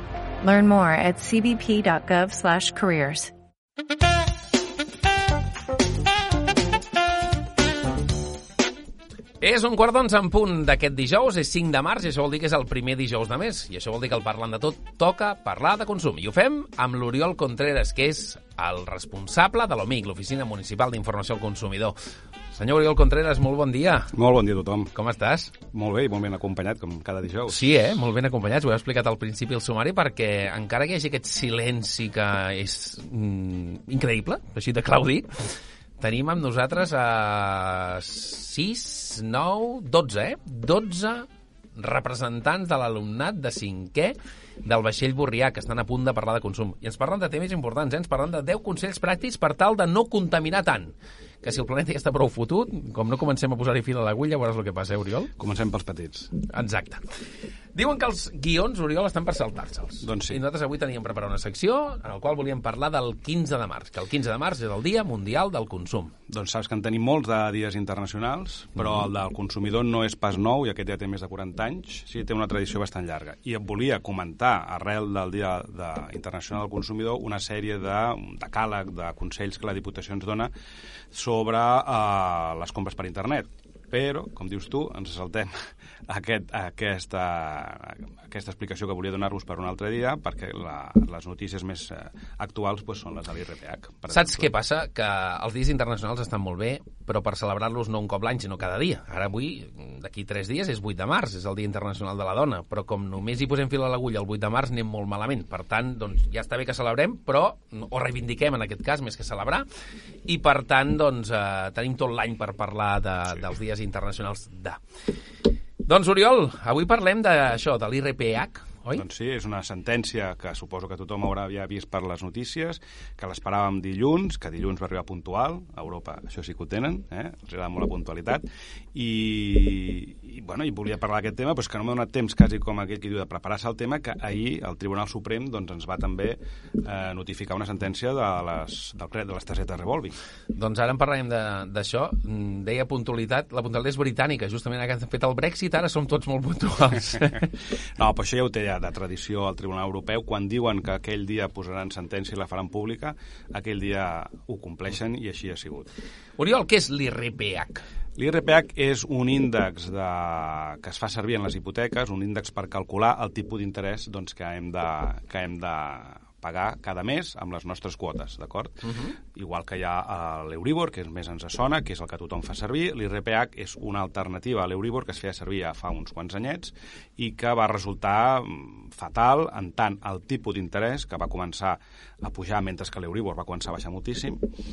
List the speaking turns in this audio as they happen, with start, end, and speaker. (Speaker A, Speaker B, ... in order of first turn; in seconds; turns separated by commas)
Speaker A: 0.4-3.3, Speaker B: 9.4-22.0, Speaker B: 22.5-24.1, Speaker C: 24.1-24.9, Speaker B: 24.9-25.5, Speaker C: 25.6-27.7, Speaker B: 27.5-55.3, Speaker C: 55.4-56.3, Speaker B: 56.5-57.1, Speaker B: 57.7-66.1, Speaker C: 60.0-60.4, Speaker C: 66.3-80.5, Speaker C: 81.1-94.5, Speaker B: 94.1-109.7, Speaker B: 110.2-114.8, Speaker B: 115.8-119.0, Speaker C: 118.9-140.2, Speaker B: 140.5-147.5, Speaker C: 147.9-155.9, Speaker B: 156.4-157.8, Speaker C: 158.2-184.4, Speaker B: 168.8-169.2